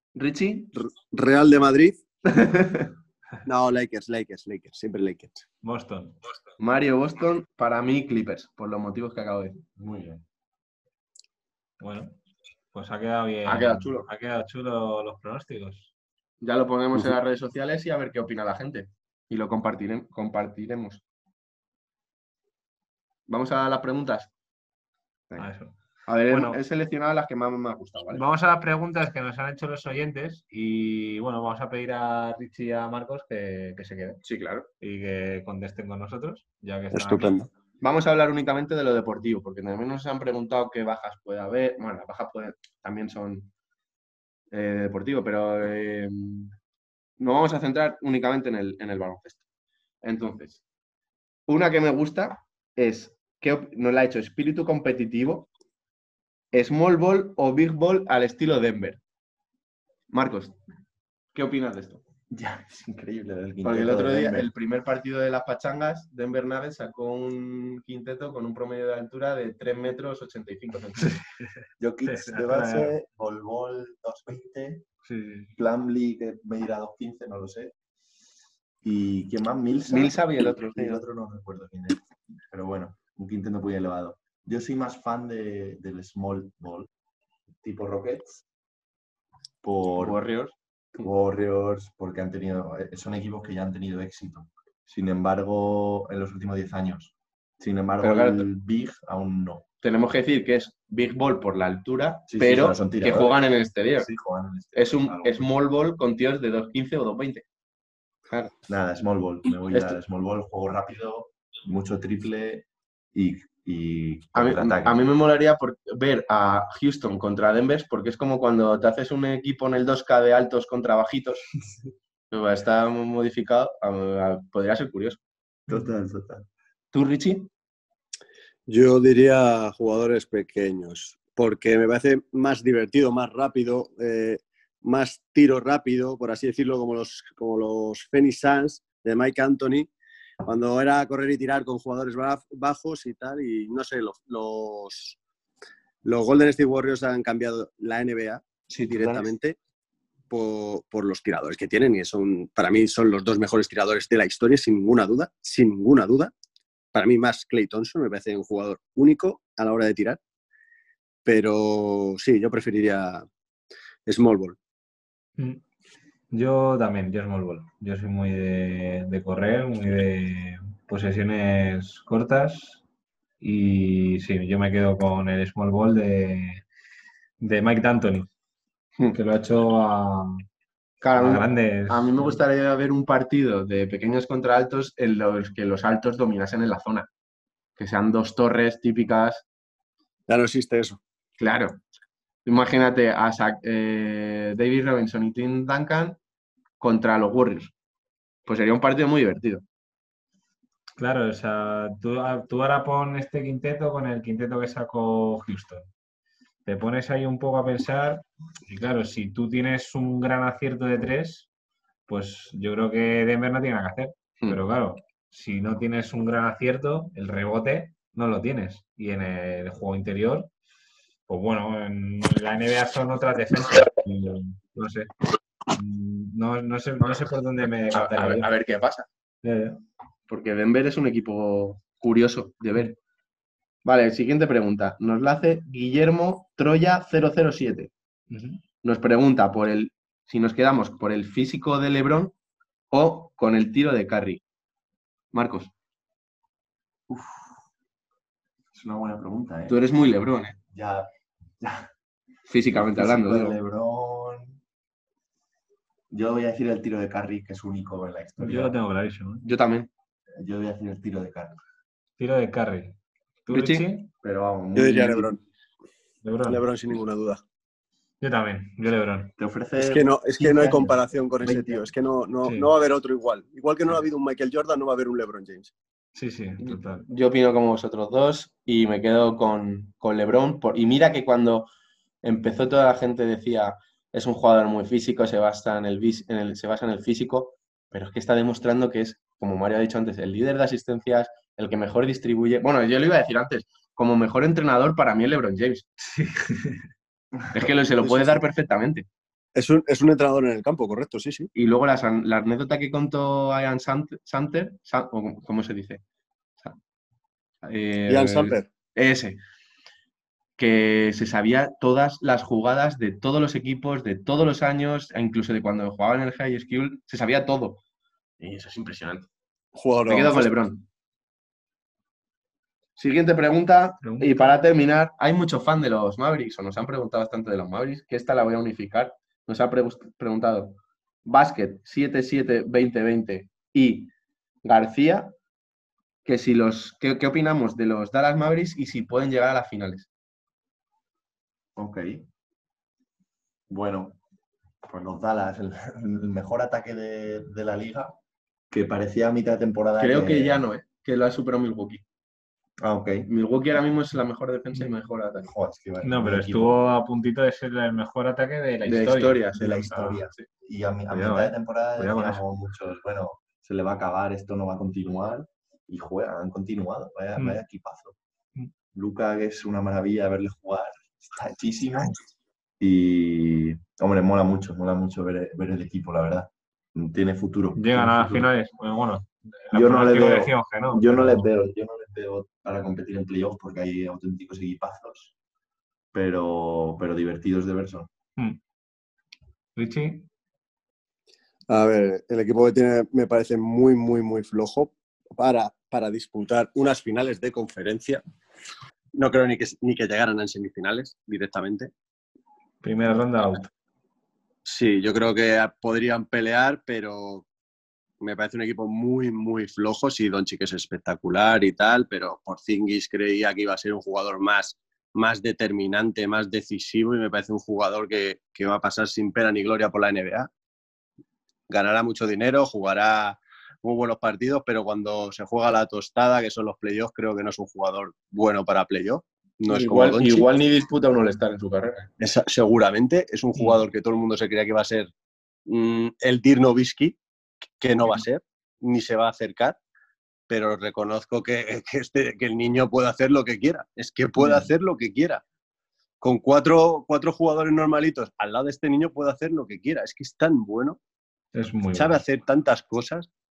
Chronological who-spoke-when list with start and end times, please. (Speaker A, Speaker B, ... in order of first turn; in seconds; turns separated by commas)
Speaker A: 0.1-0.8, Speaker B: 0.8-2.0, Speaker A: 2.3-2.9, Speaker B: 3.5-5.4, Speaker C: 5.6-6.2, Speaker A: 6.6-9.6, Speaker D: 9.8-10.2, Speaker C: 11.8-12.2, Speaker C: 12.7-15.9, Speaker A: 13.5-14.1, Speaker A: 16.4-21.0, Speaker A: 23.3-24.3, Speaker C: 25.4-25.8, Speaker A: 26.1-28.2, Speaker C: 26.3-26.6, Speaker C: 28.1-34.2, Speaker A: 34.2-34.7, Speaker C: 34.8-37.5, Speaker B: 36.9-37.5, Speaker A: 37.8-43.5, Speaker A: 44.5-46.5, Speaker A: 47.2-49.4, Speaker A: 50.0-50.6, Speaker A: 51.5-55.5, Speaker A: 56.5-59.0, Speaker A: 60.1-60.6, Speaker A: 61.3-62.0, Speaker D: 62.3-64.5, Speaker A: 63.6-71.2, Speaker C: 71.0-71.5, Speaker D: 71.8-74.9, Speaker C: 72.0-72.9, Speaker C: 75.1-75.5, Speaker D: 75.6-77.7, Speaker D: 78.8-86.9, Speaker A: 79.9-81.0, Speaker D: 87.6-88.4, Speaker D: 89.6-90.2, Speaker A: 90.0-91.1, Speaker D: 91.0-99.7, Speaker A: 98.0-98.5, Speaker A: 99.8-104.1, Speaker D: 102.3-103.4, Speaker D: 104.0-105.5, Speaker A: 104.8-107.5, Speaker A: 108.3-108.5, Speaker D: 108.7-115.0, Speaker A: 109.7-110.0, Speaker A: 114.3-121.5, Speaker A: 122.3-125.2, Speaker D: 125.7-126.5, Speaker A: 126.9-127.5, Speaker B: 128.7-139.9, Speaker B: 140.4-145.2, Speaker B: 146.0-149.6, Speaker A: 148.8-149.2, Speaker D: 148.9-149.2, Speaker B: 150.3-156.3, Speaker B: 156.9-160.2, Speaker B: 161.2-163.3, Speaker B: 164.1-164.6, Speaker C: 166.3-172.8, Speaker C: 173.4-176.6, Speaker C: 177.4-178.3, Speaker C: 179.1-180.4, Speaker A: 181.0-187.1, Speaker C: 181.2-182.4, Speaker A: 187.8-189.4, Speaker B: 190.3-191.0, Speaker A: 191.4-191.8, Speaker A: 192.5-196.2, Speaker A: 196.8-197.7, Speaker A: 198.5-199.6, Speaker C: 201.0-205.9, Speaker C: 206.7-211.5, Speaker C: 212.1-220.5, Speaker C: 221.3-225.1, Speaker C: 225.7-228.5, Speaker A: 227.9-229.1, Speaker C: 229.4-229.8, Speaker A: 230.3-233.0, Speaker A: 233.8-237.9, Speaker C: 238.3-238.6, Speaker A: 238.8-242.3, Speaker A: 242.9-244.4, Speaker A: 245.3-245.7, Speaker D: 247.1-247.5, Speaker D: 248.7-249.8, Speaker A: 249.7-250.6, Speaker D: 250.7-251.1, Speaker D: 251.6-251.9, Speaker A: 252.5-253.6, Speaker D: 252.7-254.6, Speaker D: 256.1-258.8, Speaker C: 258.4-259.4, Speaker A: 259.4-259.9, Speaker D: 260.3-261.6, Speaker C: 262.2-264.1, Speaker A: 263.5-263.9, Speaker D: 264.2-265.3, Speaker B: 264.8-265.4, Speaker C: 266.2-266.6, Speaker B: 266.5-267.4, Speaker C: 268.2-269.3, Speaker D: 269.4-271.9, Speaker B: 269.8-275.7, Speaker C: 272.4-272.7, Speaker C: 276.1-277.1, Speaker A: 276.6-281.7, Speaker A: 282.2-295.9, Speaker C: 296.0-296.9, Speaker A: 297.5-299.1, Speaker B: 298.0-298.4, Speaker B: 299.6-301.5, Speaker A: 301.6-306.0, Speaker A: 307.6-309.4, Speaker B: 308.1-308.7, Speaker A: 310.6-317.8, Speaker A: 318.4-319.3, Speaker B: 319.8-320.5, Speaker A: 320.1-320.8, Speaker A: 323.0-334.1, Speaker C: 324.0-324.5, Speaker A: 334.6-335.3, Speaker A: 336.2-340.1, Speaker D: 341.8-342.2, Speaker D: 343.7-344.2, Speaker D: 344.9-348.2, Speaker D: 348.7-350.7, Speaker A: 350.0-352.0, Speaker D: 352.8-353.3, Speaker A: 353.3-355.5, Speaker D: 355.4-356.8, Speaker C: 356.0-360.0, Speaker A: 358.9-360.5, Speaker D: 359.5-368.2, Speaker C: 361.1-362.4, Speaker D: 368.9-372.2, Speaker D: 372.8-378.5, Speaker C: 377.8-381.5, Speaker D: 379.7-385.3, Speaker D: 386.1-388.1, Speaker C: 389.8-390.3, Speaker B: 391.7-398.2, Speaker B: 399.1-401.9, Speaker C: 402.8-403.7, Speaker B: 404.6-407.5, Speaker B: 408.2-420.5, Speaker B: 421.7-430.5, Speaker A: 429.7-432.1, Speaker B: 432.2-435.1, Speaker C: 433.6-433.9, Speaker B: 435.7-437.2, Speaker B: 437.8-439.8, Speaker B: 440.5-445.4, Speaker C: 444.4-444.7, Speaker B: 446.2-451.0, Speaker C: 451.5-452.2, Speaker B: 451.9-453.3